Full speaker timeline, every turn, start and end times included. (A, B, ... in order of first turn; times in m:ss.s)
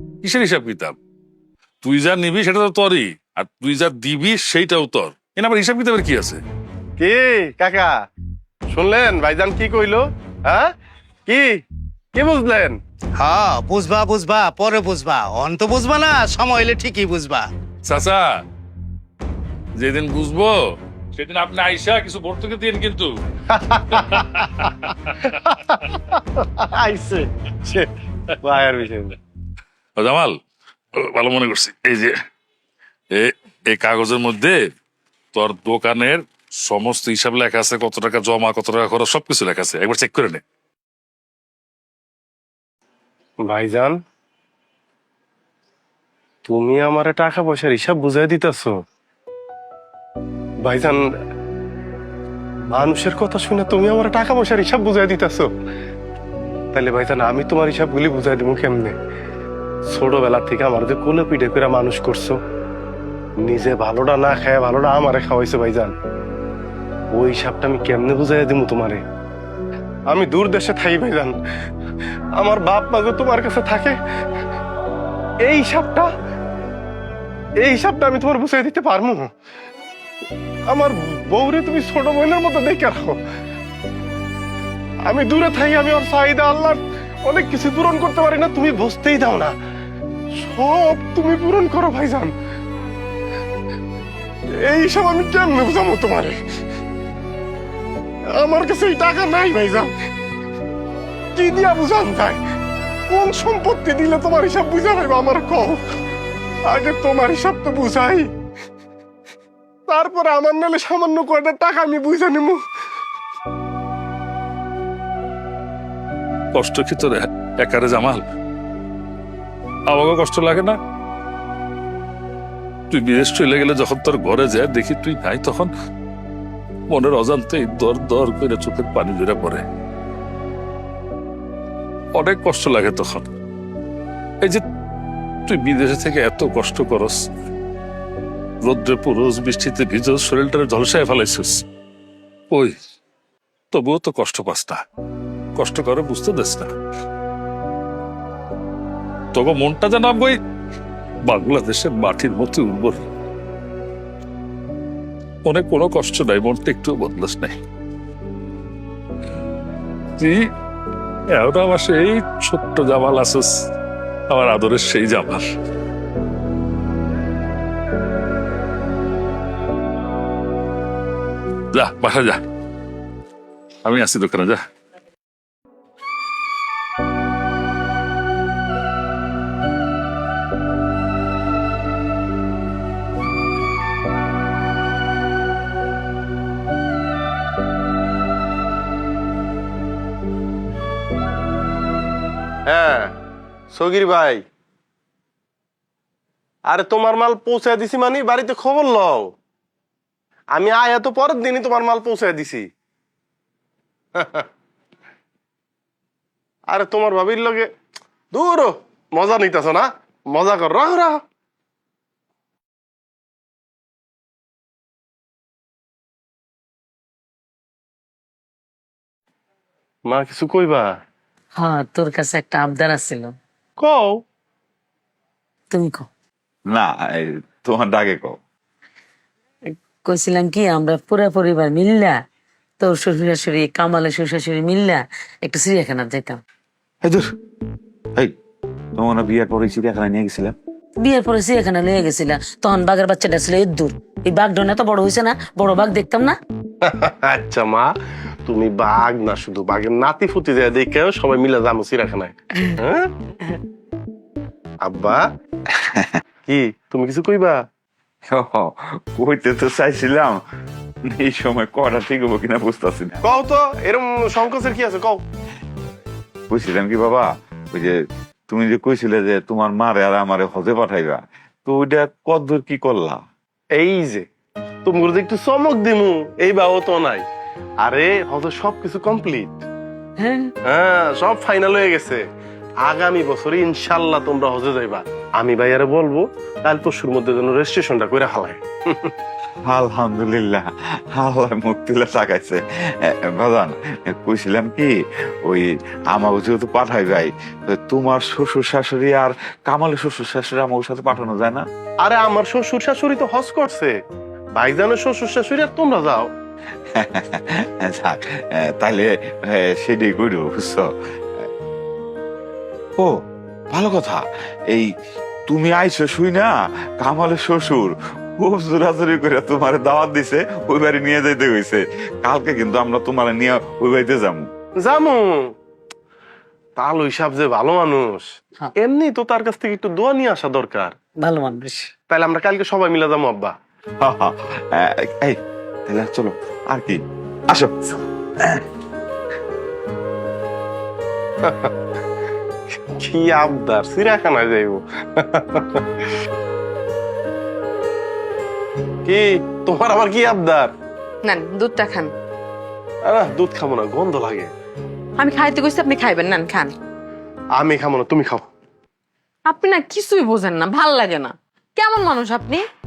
0:00.2-0:01.0 A
0:01.8-0:06.4 A
0:07.0-0:07.9 B
0:08.7-0:10.7 B
0:11.3-0:11.6 B
0:12.1-0:12.8 B
0:13.2-0:17.4 C
0:17.8-0:18.3 A
0:19.8-0:20.6 A
0:21.1-0:23.1 A
0:23.5-0:24.4 B
0:23.9-0:25.3 A
0:25.3-0:27.9 B
0:28.4-0:29.2 B
0:30.0-0:30.3 A
0:31.0-0:32.1 A
0:33.1-0:34.6 A
0:35.3-0:40.4 A
0:43.4-0:44.0 B
0:46.4-0:48.7 B
0:50.6-0:51.0 B
0:52.7-0:55.5 B
0:56.7-0:58.9 B
0:59.9-1:02.4 B
1:03.4-1:05.9 B
1:07.1-1:09.0 B
1:10.1-1:11.4 B
1:12.4-1:14.0 B
1:15.4-1:16.1 B
1:17.6-1:19.2 B
1:20.7-1:23.2 B
1:25.1-1:29.5 B
1:30.4-1:32.3 B
1:34.6-1:36.4 B
1:38.4-1:39.9 B
1:41.3-1:42.4 B
1:43.1-1:45.8 B
1:46.7-1:48.3 B
1:49.9-1:52.6 B
1:56.5-1:58.2 A
1:59.9-2:00.8 A
2:02.9-2:05.7 A
2:06.9-2:09.6 A
2:12.2-2:13.3 A
2:15.5-2:17.2 A
2:18.6-2:21.6 A
2:23.7-2:24.8 A
2:25.6-2:26.7 A
2:29.3-2:30.4 A
2:31.2-2:33.0 A
2:35.4-2:37.5 A
2:40.2-2:40.5 A
2:41.3-2:43.5 A
2:44.3-2:45.5 A
2:51.7-2:52.4 A
2:53.8-2:54.6 A
3:12.7-3:13.1 B
3:13.7-3:14.4 B
3:16.7-3:19.3 B
3:20.5-3:22.6 B
3:24.2-3:24.4 B
3:26.7-3:27.7 B
3:28.3-3:31.2 B
3:40.0-3:40.9 B
3:41.6-3:43.3 D
3:43.8-3:44.2 B
3:45.7-3:46.1 D
3:46.7-3:48.4 E
3:49.7-3:52.2 D
3:52.8-3:56.4 D
3:59.0-4:00.6 E
4:01.0-4:06.4 D
4:06.8-4:07.9 B
4:08.4-4:13.1 B
4:14.8-4:15.2 B
4:16.4-4:17.6 B
4:18.3-4:20.4 E
4:21.1-4:23.2 E
4:23.2-4:25.2 B
4:26.5-4:33.2 E
4:33.8-4:34.2 B
4:34.8-4:37.2 B
4:37.8-4:39.6 B
4:40.2-4:40.5 D
4:40.7-4:42.2 B
4:42.8-4:49.1 B
4:49.6-4:54.9 E
4:55.4-5:01.6 E
5:02.0-5:03.9 B
5:04.6-5:06.2 B
5:06.9-5:11.5 E
5:13.0-5:14.9 E
5:15.5-5:24.4 E
5:24.8-5:25.4 B
5:26.8-5:30.9 B
5:31.2-5:31.9 D
5:32.1-5:33.5 B
5:34.0-5:38.6 E
5:41.4-5:41.7 B
5:43.0-5:44.8 B
5:45.3-5:45.8 B
5:49.0-5:50.7 B
5:51.2-5:52.1 F
5:53.0-5:54.5 B
5:55.2-5:56.7 F
5:57.6-5:58.4 B
5:59.4-6:02.6 F